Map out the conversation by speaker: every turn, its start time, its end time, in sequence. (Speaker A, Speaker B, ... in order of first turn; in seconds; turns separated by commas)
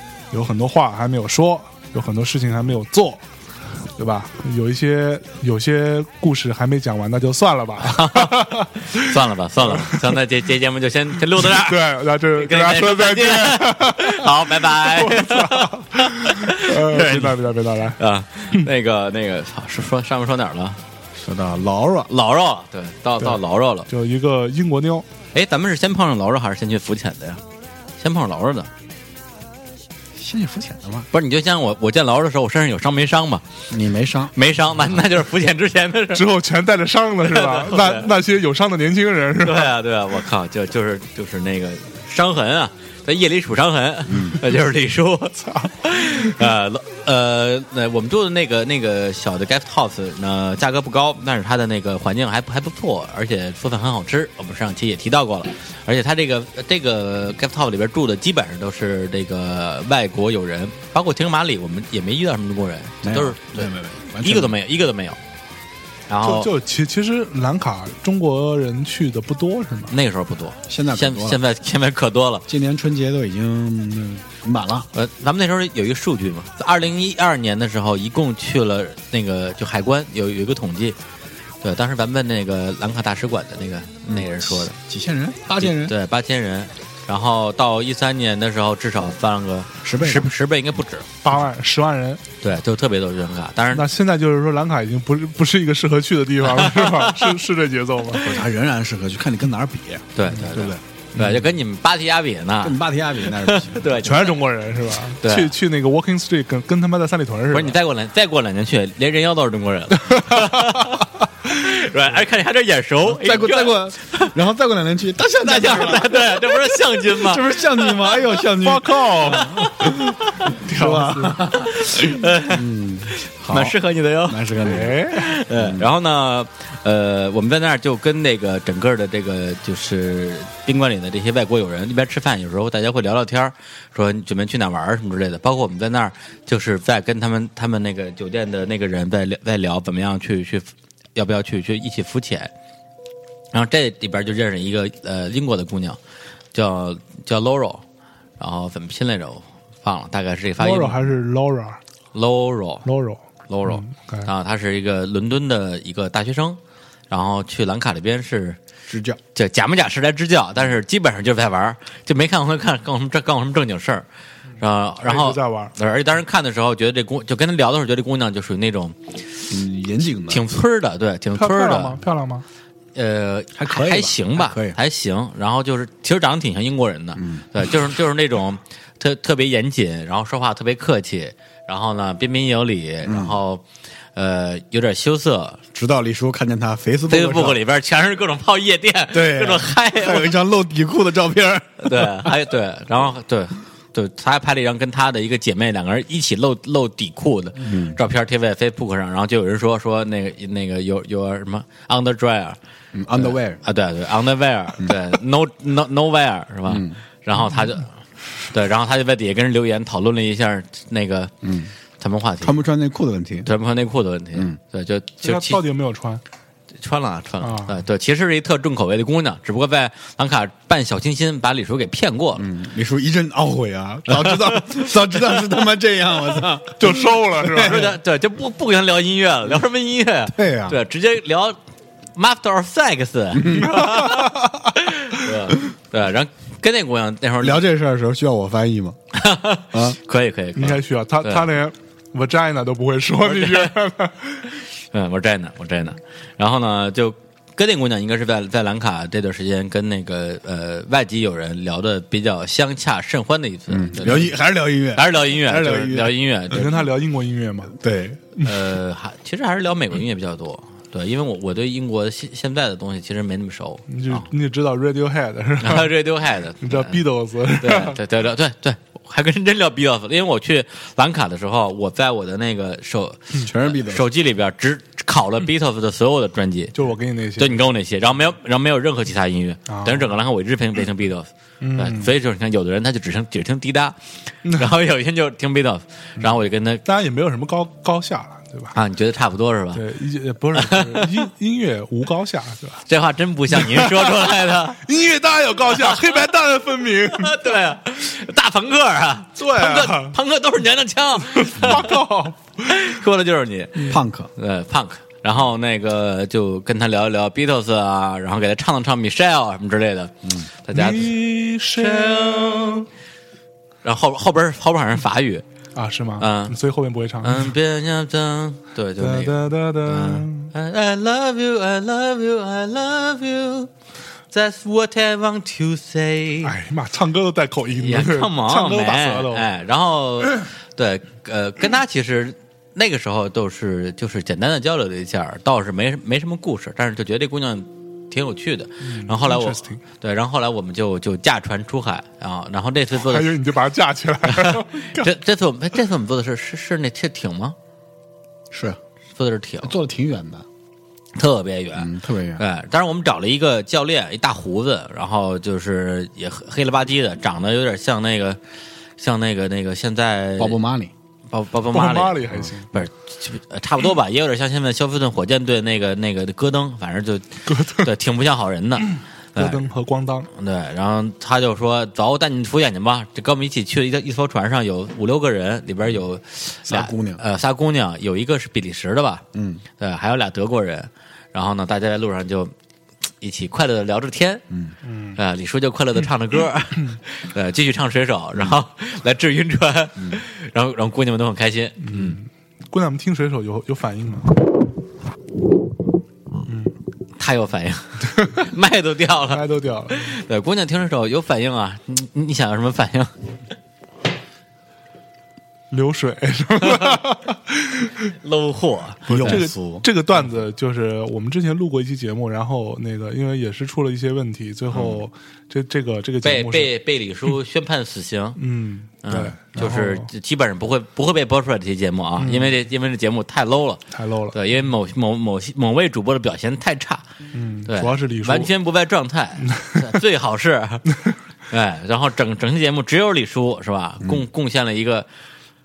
Speaker A: 0.3-3.2, Speaker A: 4.0-9.1, Speaker B: 7.8-20.8, Speaker A: 9.7-10.2, Speaker A: 11.4-18.0, Speaker C: 21.1-22.1, Speaker B: 22.1-23.9, Speaker A: 23.9-25.1, Speaker B: 25.3-27.4, Speaker B: 28.0-28.7, Speaker C: 30.1-31.1, Speaker B: 31.1-33.5, Speaker C: 33.7-34.3, Speaker B: 34.4-36.3, Speaker A: 36.1-39.7, Speaker B: 37.2-38.1, Speaker B: 39.4-65.2, Speaker C: 44.1-44.4, Speaker A: 45.4-46.4, Speaker C: 63.0-64.6, Speaker B: 66.1-66.5, Speaker A: 66.2-70.0, Speaker B: 69.9-72.5, Speaker C: 70.7-71.4, Speaker C: 72.5-74.9, Speaker B: 74.9-81.0, Speaker B: 81.6-84.8, Speaker C: 84.1-86.0, Speaker B: 85.6-91.1, Speaker C: 89.8-90.3, Speaker A: 91.2-92.2, Speaker B: 92.4-93.9, Speaker A: 93.7-98.3, Speaker B: 96.4-97.4, Speaker C: 98.2-101.5, Speaker B: 100.2-104.4, Speaker C: 102.6-103.9, Speaker A: 104.0-107.8, Speaker B: 105.2-105.5, Speaker B: 107.5-114.3, Speaker A: 110.2-111.0, Speaker C: 113.1-125.9, Speaker B: 115.4-117.9, Speaker A: 118.5-119.7, Speaker B: 119.3-120.5, Speaker A: 120.5-121.4, Speaker B: 121.4-142.5, Speaker A: 124.7-125.3, Speaker B: 143.5-146.0, Speaker B: 146.5-147.8, Speaker B: 148.4-151.0, Speaker A: 150.6-151.8, Speaker B: 152.1-152.9, Speaker A: 152.8-154.3, Speaker B: 153.5-156.6, Speaker B: 157.1-158.6, Speaker C: 158.9-159.2, Speaker B: 159.3-164.1, Speaker B: 164.6-169.0, Speaker A: 165.0-165.7, Speaker C: 169.5-170.4, Speaker B: 170.3-172.0, Speaker A: 171.4-172.4, Speaker B: 172.9-183.6, Speaker C: 173.6-174.8, Speaker C: 177.2-177.4, Speaker C: 183.1-183.3, Speaker B: 184.2-185.6, Speaker C: 185.7-187.6, Speaker B: 187.1-190.4, Speaker C: 189.1-192.3, Speaker B: 191.8-202.6, Speaker C: 197.6-198.0, Speaker C: 202.9-203.6, Speaker B: 203.2-207.9, Speaker C: 206.7-207.0, Speaker B: 208.5-211.3, Speaker C: 211.4-211.7, Speaker B: 212.0-212.6, Speaker C: 212.4-213.5, Speaker B: 213.4-215.6, Speaker A: 215.2-216.2, Speaker B: 216.8-222.5, Speaker A: 217.4-217.7, Speaker C: 222.4-227.9, Speaker B: 224.1-224.8, Speaker A: 226.8-227.9, Speaker B: 227.6-231.6, Speaker C: 230.3-230.8, Speaker B: 232.2-237.6, Speaker C: 233.3-233.8, Speaker A: 233.7-234.5, Speaker C: 237.4-239.0, Speaker B: 239.1-241.5, Speaker C: 239.7-240.0, Speaker A: 240.6-244.5, Speaker B: 243.2-243.7, Speaker B: 244.9-254.4, Speaker C: 253.7-256.1, Speaker B: 254.9-256.8, Speaker A: 256.5-257.8, Speaker C: 257.8-258.2, Speaker A: 258.4-258.7, Speaker B: 258.4-264.3, Speaker A: 263.9-265.9, Speaker B: 265.6-267.0, Speaker A: 266.6-268.0, Speaker B: 267.6-276.8, Speaker C: 273.4-274.1, Speaker A: 276.8-277.6, Speaker B: 277.4-284.0, Speaker A: 279.7-280.1, Speaker A: 281.6-282.1, Speaker A: 284.4-284.7, Speaker B: 284.6-286.8, Speaker A: 286.2-288.8, Speaker B: 288.7-289.8, Speaker A: 289.7-292.8, Speaker B: 290.6-291.1, Speaker B: 292.9-294.8, Speaker A: 293.5-297.6, Speaker B: 295.7-296.2, Speaker B: 297.1-302.0, Speaker A: 299.4-300.2, Speaker A: 301.2-302.7, Speaker B: 302.6-311.1, Speaker C: 303.9-304.3, Speaker A: 310.7-312.8, Speaker B: 311.7-312.9, Speaker B: 313.8-315.4, Speaker A: 315.8-317.5, Speaker B: 316.2-316.6, Speaker B: 317.2-323.7, Speaker A: 319.0-320.5, Speaker B: 324.3-326.5, Speaker A: 326.4-329.5, Speaker B: 327.8-343.4, Speaker A: 338.8-339.8, Speaker A: 342.9-345.1, Speaker B: 344.3-347.6, Speaker C: 348.5-348.8, Speaker B: 349.2-349.7, Speaker C: 349.6-350.5, Speaker B: 351.1-358.4, Speaker C: 351.8-352.4, Speaker B: 359.0-360.6, Speaker C: 360.4-360.9, Speaker B: 361.3-369.7, Speaker A: 361.7-362.7, Speaker A: 367.5-367.9, Speaker A: 369.4-370.3, Speaker B: 370.3-379.2, Speaker C: 376.7-377.2, Speaker C: 379.3-379.6, Speaker B: 379.8-382.5, Speaker B: 383.2-384.4, Speaker A: 384.9-385.2, Speaker B: 385.2-392.2, Speaker A: 391.8-394.3, Speaker A: 396.5-396.7, Speaker B: 397.2-403.1, Speaker A: 399.3-400.1, Speaker A: 405.7-407.9, Speaker B: 406.7-407.0, Speaker B: 408.2-409.4, Speaker A: 409.1-416.7, Speaker C: 409.1-409.9, Speaker B: 414.7-415.0, Speaker B: 416.2-418.4, Speaker A: 418.4-420.1, Speaker B: 419.0-423.8, Speaker A: 422.2-422.6, Speaker A: 423.9-424.4, Speaker B: 424.3-427.0, Speaker A: 427.3-428.5, Speaker B: 427.7-430.9, Speaker A: 429.5-429.9, Speaker B: 431.5-435.1